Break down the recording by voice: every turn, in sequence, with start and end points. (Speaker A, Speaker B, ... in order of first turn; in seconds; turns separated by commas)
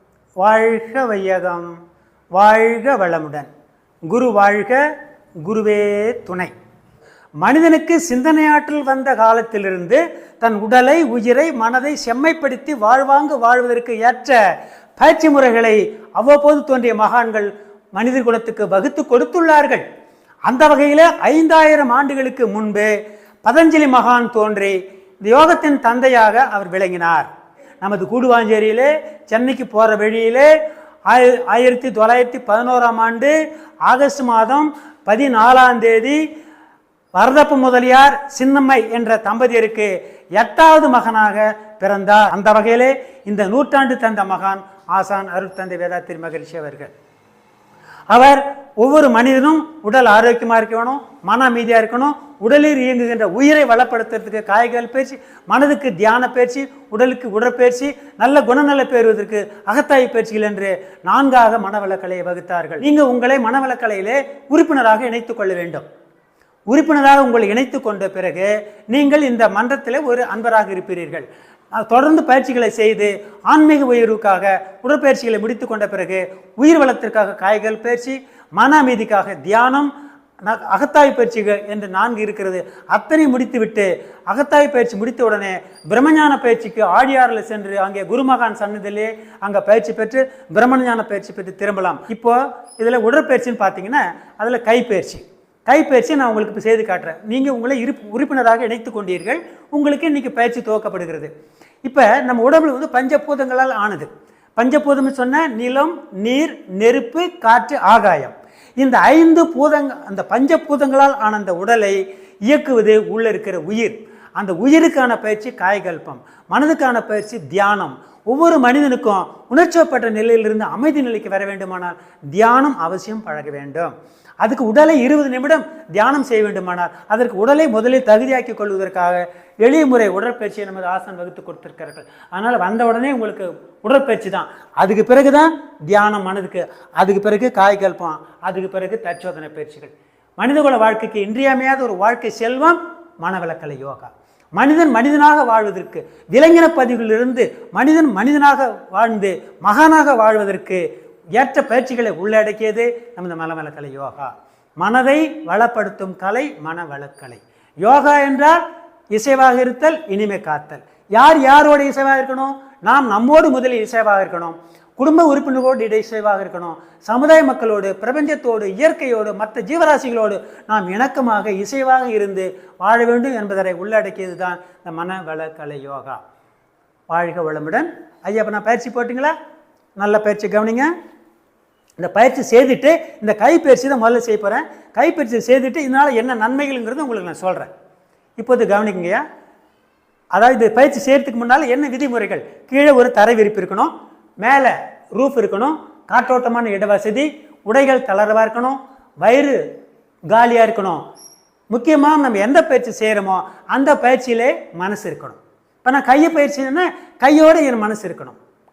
Speaker A: 0.4-1.7, Speaker A: 2.3-3.5, Speaker A: 4.1-4.8, Speaker A: 5.4-6.5, Speaker A: 7.4-14.4, Speaker A: 15.0-19.8, Speaker A: 20.5-22.9, Speaker A: 23.4-27.3, Speaker A: 27.8-30.5, Speaker A: 31.1-33.3, Speaker A: 33.9-36.2, Speaker A: 37.1-46.9, Speaker A: 48.1-65.8, Speaker A: 66.7-79.9, Speaker A: 80.4-101.3, Speaker A: 101.8-158.6, Speaker A: 159.1-176.2, Speaker A: 177.1-179.3, Speaker A: 180.0-180.9, Speaker A: 182.0-187.7, Speaker A: 188.4-189.2, Speaker A: 190.3-199.6, Speaker A: 200.3-201.0, Speaker A: 201.7-208.4